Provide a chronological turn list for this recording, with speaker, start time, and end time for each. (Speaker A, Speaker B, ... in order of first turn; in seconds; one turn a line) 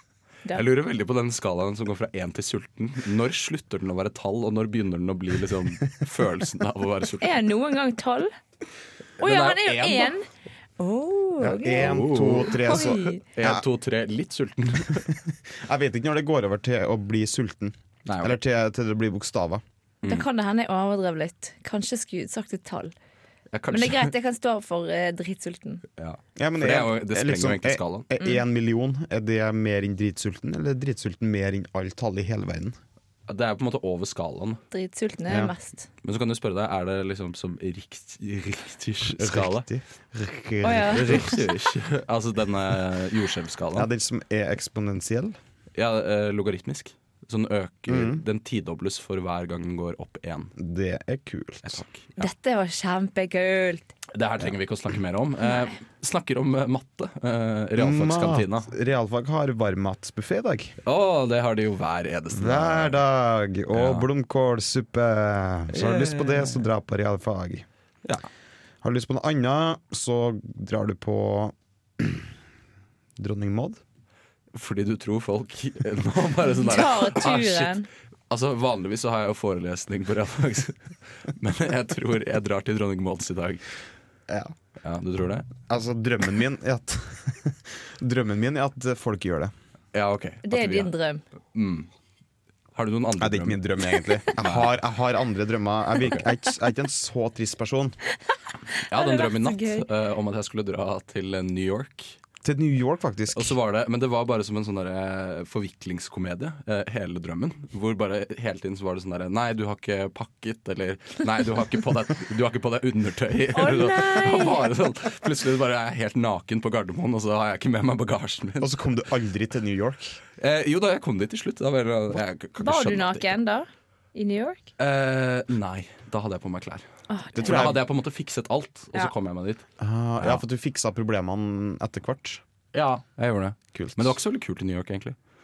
Speaker A: 0.5-7.5
Speaker B: 7.2-8.3
Speaker A: 9.2-10.1
Speaker B: 9.2-10.2
Speaker B: 10.8-13.2
Speaker C: 11.4-13.6
Speaker A: 11.6-15.1
Speaker C: 15.5-19.6
Speaker A: 18.1-18.4
Speaker B: 20.0-22.9
Speaker A: 23.5-24.1
Speaker B: 23.7-25.8
Speaker A: 26.0-28.1
Speaker C: 26.4-32.8
Speaker A: 33.3-34.6
Speaker B: 34.7-35.9
Speaker C: 35.3-35.5
Speaker A: 36.0-39.7
Speaker C: 39.0-41.4
Speaker B: 40.6-41.4
Speaker A: 40.9-43.9
Speaker C: 43.7-45.4
Speaker A: 45.7-50.5
Speaker C: 47.9-48.2
Speaker C: 50.6-51.8
Speaker A: 51.6-52.3
Speaker B: 52.2-53.9
Speaker A: 54.1-58.7
Speaker C: 57.8-60.8
Speaker A: 60.8-63.0
Speaker C: 62.3-67.7
Speaker A: 63.7-64.1
Speaker A: 65.7-66.7
Speaker C: 68.8-72.3
Speaker C: 73.2-73.8
Speaker A: 74.5-83.6
Speaker B: 76.6-77.9
Speaker C: 84.3-84.5
Speaker A: 84.8-85.5
Speaker C: 85.7-89.5
Speaker A: 89.9-90.9
Speaker B: 90.4-91.2
Speaker A: 91.5-91.9
Speaker A: 92.7-93.6
Speaker C: 93.2-98.0
Speaker A: 94.4-94.8
Speaker B: 98.7-99.8
Speaker A: 98.9-102.2
Speaker C: 102.4-103.5
Speaker A: 103.3-118.8
Speaker B: 113.5-114.7
Speaker C: 118.6-120.2
Speaker A: 120.4-123.3
Speaker B: 122.6-124.6
Speaker A: 124.8-126.8
Speaker B: 127.1-127.7
Speaker C: 127.3-127.8
Speaker A: 127.4-129.6
Speaker C: 129.8-132.4
Speaker A: 132.7-135.2
Speaker C: 133.7-134.2